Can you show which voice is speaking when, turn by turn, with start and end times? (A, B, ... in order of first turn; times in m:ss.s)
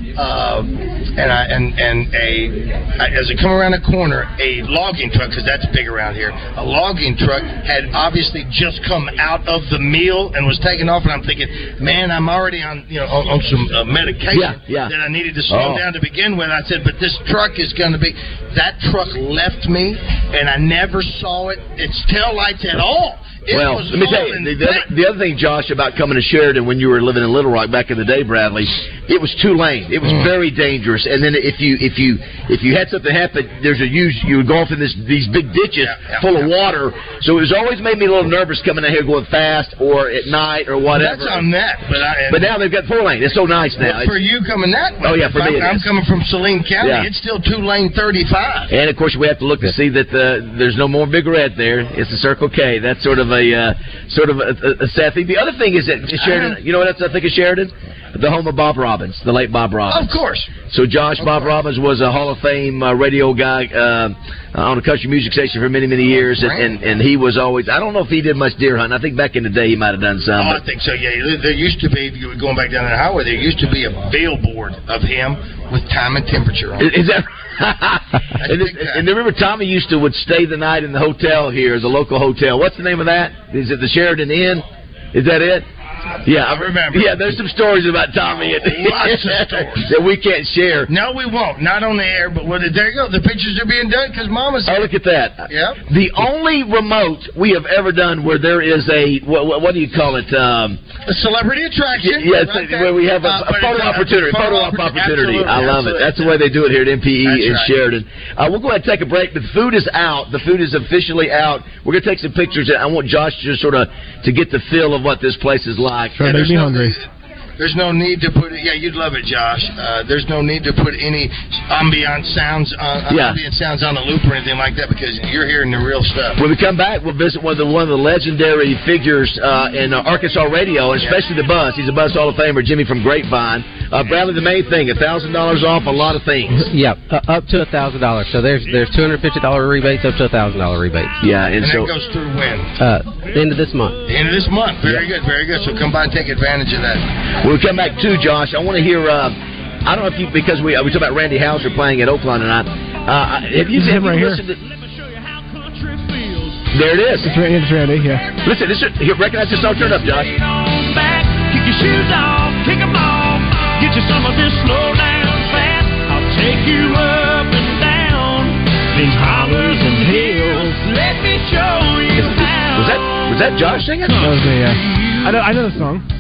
0:00.2-0:24.9 A
0:14.3-0:14.9 B
0:15.5-0:15.8 B
0:23.5-0:41.5 B
0:35.8-0:36.5 A
0:41.0-0:42.5 A
0:42.3-0:44.2 B
0:43.8-0:48.7 A
0:45.0-0:45.9 B
0:46.8-0:47.1 B
0:48.7-1:10.6 B
0:56.2-0:56.6 A
0:59.9-1:00.5 A
1:01.2-1:01.5 A
1:06.2-1:06.7 A
1:10.4-1:16.9 A
1:16.8-1:25.7 B
1:18.4-1:19.0 A
1:26.2-1:30.9 B
1:26.3-1:27.2 A
1:28.3-1:29.9 A
1:30.9-1:34.9 A
1:34.7-1:40.8 B
1:35.5-1:35.8 A
1:41.1-1:46.4 A
1:42.0-1:56.3 B
1:47.2-1:47.7 A
1:56.2-1:57.0 C
1:56.2-1:57.0 A
1:57.6-2:06.4 A
2:03.1-2:03.4 B
2:06.4-2:16.7 B
2:16.7-2:21.2 D
2:21.2-2:21.9 B
2:21.6-2:22.7 A
2:22.8-2:24.0 D
2:24.1-2:27.0 A
2:27.4-2:34.6 B
2:33.7-2:34.4 C
2:34.5-2:36.7 E
2:36.7-2:37.3 B
2:37.2-2:38.2 C
2:37.7-2:38.7 E
2:38.4-2:40.3 B
2:39.4-2:55.5 E
2:49.0-2:50.8 C
2:52.2-2:54.3 B
2:54.2-2:56.0 C